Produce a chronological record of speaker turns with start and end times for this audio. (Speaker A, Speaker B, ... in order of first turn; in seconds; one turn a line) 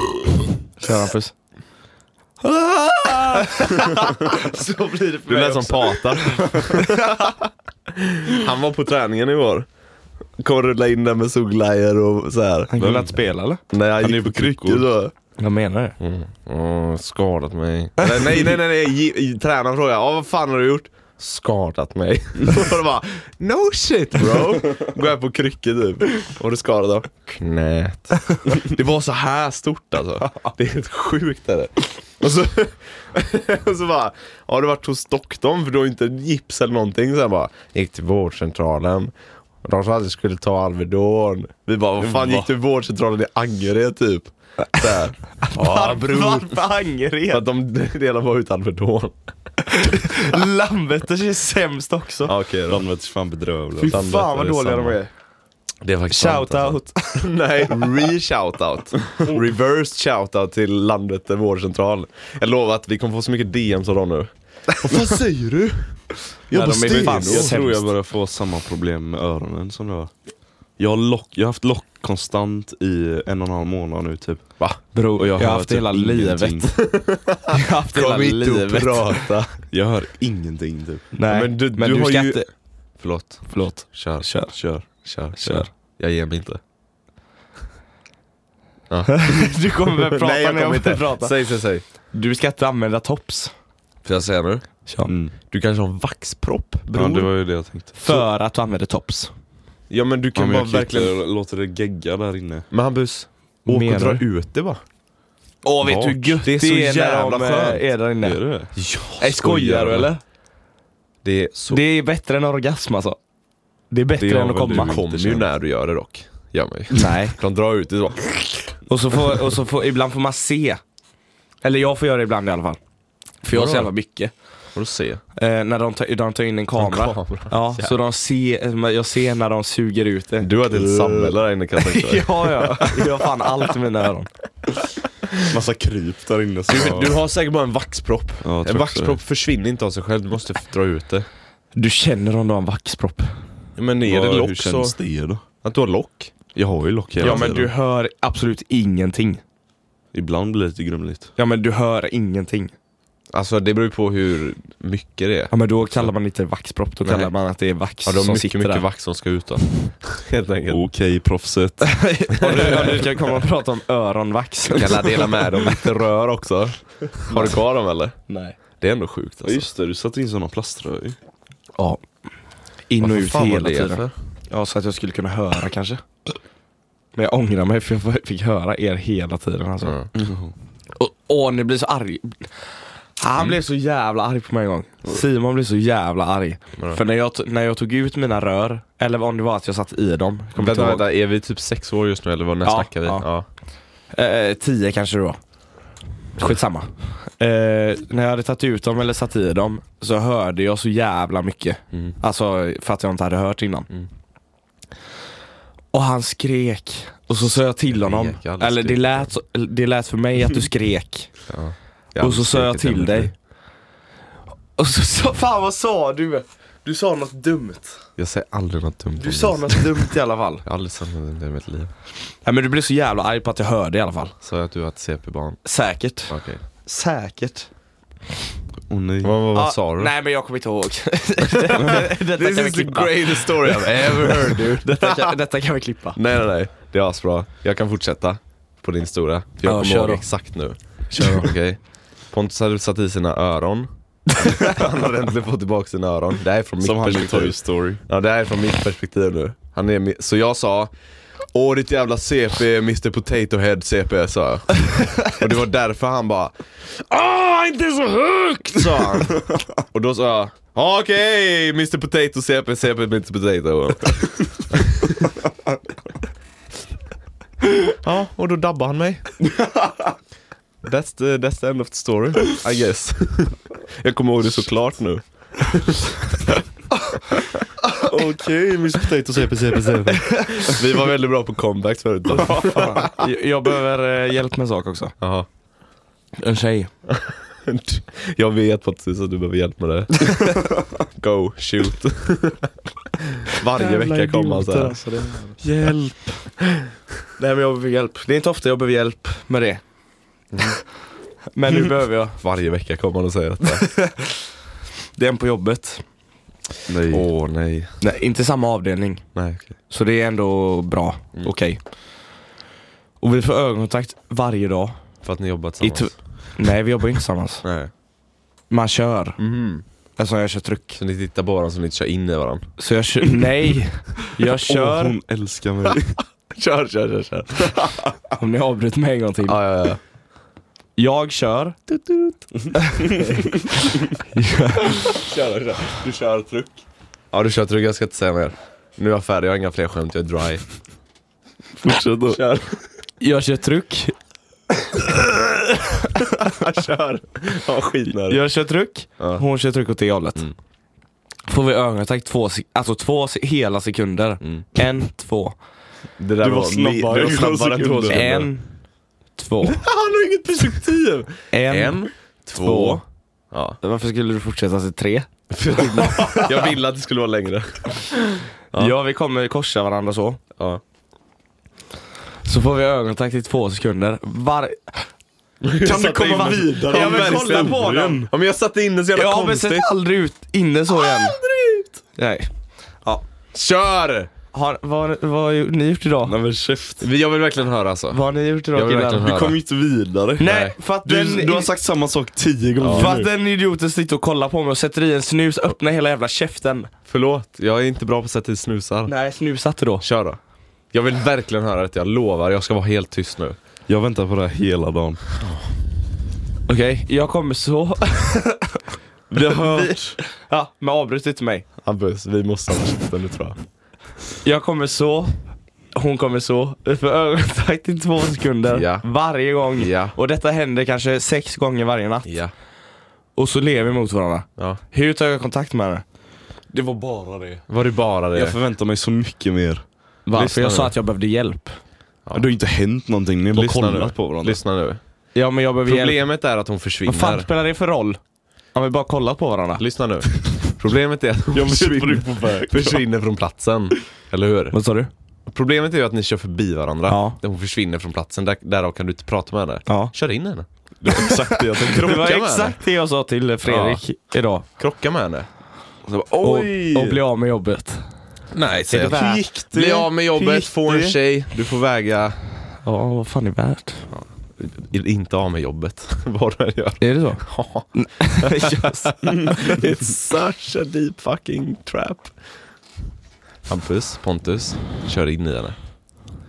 Speaker A: 0.8-1.3
Speaker B: 2.4-4.5
Speaker A: 3.3-7.2
Speaker B: 5.3-7.3
Speaker B: 7.9-9.7
Speaker B: 10.4-12.7
Speaker A: 12.7-13.6
Speaker C: 12.8-13.1
Speaker B: 13.7-15.1
Speaker C: 14.0-14.9
Speaker A: 15.4-15.9
Speaker B: 16.0-39.1
Speaker B: 39.6-46.6
Speaker C: 42.0-42.5
Speaker A: 45.4-47.4
Speaker B: 47.3-49.1
Speaker A: 49.8-52.3
Speaker B: 52.2-52.8
Speaker C: 52.7-54.0
Speaker A: 53.8-55.1
Speaker B: 53.9-55.0
Speaker B: 55.8-67.5
Speaker A: 56.1-57.3
Speaker A: 66.5-67.9
Speaker C: 66.5-70.1
Speaker C: 70.8-74.5
Speaker A: 74.9-76.8
Speaker C: 75.2-76.7
Speaker B: 76.7-79.6
Speaker A: 77.5-79.3
Speaker C: 79.7-81.1
Speaker A: 81.1-82.5
Speaker B: 81.3-84.3
Speaker A: 83.4-84.5
Speaker C: 84.5-84.9
Speaker B: 84.9-86.6
Speaker A: 85.4-85.7
Speaker B: 88.9-91.8
Speaker A: 89.1-91.3
Speaker A: 92.1-93.5
Speaker B: 94.0-94.7
Speaker A: 94.8-95.1
Speaker C: 95.1-95.3
Speaker B: 95.5-97.3
Speaker C: 96.9-98.2
Speaker A: 98.0-99.3
Speaker B: 99.9-101.1
Speaker C: 100.3-102.7
Speaker B: 102.7-104.8
Speaker A: 103.7-104.2
Speaker A: 105.6-108.4
Speaker C: 105.8-106.4
Speaker B: 106.4-107.8
Speaker C: 108.2-108.7
Speaker B: 108.8-110.1
Speaker A: 109.2-110.2
Speaker B: 111.2-111.8
Speaker A: 111.7-113.2
Speaker A: 113.9-115.0
Speaker C: 114.2-115.5
Speaker B: 114.7-118.8
Speaker A: 116.9-117.3
Speaker A: 118.9-120.8
Speaker A: 121.6-122.8
Speaker A: 123.4-124.3
Speaker B: 123.5-123.9
Speaker B: 124.7-125.2
Speaker A: 125.3-131.2
Speaker B: 126.8-128.0
Speaker B: 130.4-133.2
Speaker A: 131.8-134.3
Speaker C: 135.4-137.2
Speaker B: 136.7-141.3
Speaker C: 138.4-139.2
Speaker A: 141.7-143.3
Speaker B: 143.8-144.9
Speaker C: 144.0-145.4
Speaker B: 145.6-146.3
Speaker C: 146.5-147.7
Speaker A: 147.2-149.4
Speaker B: 147.2-147.5
Speaker C: 150.1-151.3
Speaker A: 151.3-152.7
Speaker B: 153.3-155.5
Speaker A: 155.5-158.8
Speaker B: 157.0-157.3
Speaker B: 158.0-160.8
Speaker C: 160.7-163.0
Speaker A: 161.8-165.1
Speaker B: 162.4-163.0
Speaker B: 164.7-168.1
Speaker A: 167.2-167.5
Speaker A: 168.3-168.6
Speaker B: 168.8-169.7
Speaker C: 169.4-171.2
Speaker A: 172.9-176.0
Speaker B: 173.0-174.1
Speaker A: 177.2-180.0
Speaker B: 179.8-180.1
Speaker C: 180.1-180.5
Speaker A: 180.9-191.0
Speaker B: 190.6-193.4
Speaker A: 192.6-193.3
Speaker A: 194.1-195.4
Speaker A: 196.4-203.9
Speaker A: 205.9-211.3
Speaker B: 207.3-209.3
Speaker B: 211.5-213.3
Speaker A: 212.2-213.3
Speaker A: 214.8-218.0
Speaker B: 218.2-220.1
Speaker A: 219.2-220.6
Speaker B: 220.6-221.9
Speaker A: 222.4-224.3
Speaker B: 224.4-225.6
Speaker A: 225.6-227.7
Speaker B: 226.3-226.6
Speaker C: 228.9-229.4
Speaker B: 229.2-230.1
Speaker A: 229.5-236.2
Speaker B: 231.5-235.3
Speaker B: 236.1-250.9
Speaker A: 239.6-240.3
Speaker A: 241.1-241.5
Speaker A: 244.4-244.8
Speaker C: 246.8-248.0
Speaker B: 251.5-265.3
Speaker B: 267.8-269.4
Speaker C: 269.6-270.0
Speaker B: 270.8-276.6
Speaker C: 278.0-280.7
Speaker B: 280.5-283.1
Speaker A: 282.4-285.1
Speaker B: 285.2-285.5
Speaker A: 286.4-286.9
Speaker B: 287.1-292.7
Speaker B: 293.4-295.1
Speaker A: 293.7-296.1
Speaker B: 295.6-295.9
Speaker A: 297.4-299.8
Speaker B: 300.5-300.8
Speaker A: 301.5-302.4
Speaker B: 302.4-303.9
Speaker A: 303.7-304.4
Speaker A: 305.1-306.0
Speaker C: 306.9-307.3
Speaker B: 307.1-307.9
Speaker A: 308.0-309.2
Speaker B: 309.3-309.7
Speaker A: 309.9-311.8
Speaker A: 313.2-315.0
Speaker B: 315.2-316.1
Speaker A: 315.8-317.6
Speaker B: 317.6-317.9
Speaker A: 318.7-319.4
Speaker B: 319.4-319.8
Speaker A: 320.2-321.0
Speaker B: 321.0-322.7
Speaker A: 322.8-325.1
Speaker C: 324.5-326.2
Speaker B: 326.5-327.9
Speaker A: 328.3-329.6
Speaker B: 329.4-330.0
Speaker A: 331.0-331.9
Speaker A: 332.7-333.8
Speaker A: 334.3-335.2
Speaker B: 334.9-336.8
Speaker B: 337.3-340.6
Speaker C: 341.8-342.4
Speaker B: 342.3-342.8
Speaker A: 343.2-344.1
Speaker B: 346.2-348.4
Speaker A: 348.2-350.5
Speaker B: 349.2-349.4
Speaker A: 351.5-355.6
Speaker B: 354.4-354.6
Speaker B: 356.2-358.5
Speaker C: 356.4-358.2
Speaker A: 358.1-358.7
Speaker A: 359.4-359.8
Speaker B: 359.6-363.8
Speaker A: 361.5-363.0
Speaker A: 363.8-366.5
Speaker B: 365.5-368.9
Speaker A: 368.7-370.4
Speaker A: 372.4-375.1
Speaker B: 375.6-379.9
Speaker C: 375.8-378.3
Speaker A: 376.7-378.3
Speaker A: 379.1-381.4
Speaker C: 381.0-381.9
Speaker A: 382.1-382.5
Speaker B: 383.5-384.3
Speaker A: 384.5-386.3
Speaker C: 386.2-387.1
Speaker B: 387.0-388.2
Speaker A: 388.1-389.3
Speaker B: 388.7-389.6
Speaker C: 389.2-390.5
Speaker B: 390.4-390.7
Speaker A: 390.4-391.7
Speaker C: 391.0-393.3
Speaker B: 392.8-393.1
Speaker A: 392.9-396.9
Speaker B: 397.1-399.1
Speaker A: 399.1-400.0
Speaker B: 400.0-400.4
Speaker B: 400.9-403.6
Speaker C: 403.9-405.3
Speaker A: 406.7-408.8
Speaker C: 409.3-410.2
Speaker A: 409.4-411.7
Speaker B: 411.8-413.6
Speaker A: 414.4-415.4
Speaker A: 415.9-422.3
Speaker B: 418.7-419.1
Speaker B: 419.8-420.1
Speaker B: 422.2-422.5
Speaker A: 423.4-426.0
Speaker C: 426.7-427.6
Speaker B: 427.7-428.6
Speaker C: 428.3-429.8
Speaker A: 430.2-431.8
Speaker B: 430.3-430.9
Speaker C: 432.3-434.6
Speaker B: 433.5-435.0
Speaker A: 435.3-436.2
Speaker B: 435.8-437.5
Speaker A: 437.0-438.2
Speaker A: 438.7-439.8
Speaker B: 439.8-444.8
Speaker C: 441.5-443.0
Speaker A: 444.7-445.1
Speaker B: 445.5-450.6
Speaker A: 447.1-447.4
Speaker A: 449.9-450.1
Speaker C: 451.0-452.3
Speaker A: 451.1-454.6
Speaker B: 452.0-452.8
Speaker B: 453.6-454.0
Speaker B: 454.8-455.5
Speaker C: 456.1-457.2
Speaker A: 456.4-458.1
Speaker B: 458.5-462.4
Speaker A: 458.9-461.1
Speaker A: 462.8-464.1
Speaker B: 464.1-472.3
Speaker A: 467.0-469.6
Speaker B: 473.7-475.8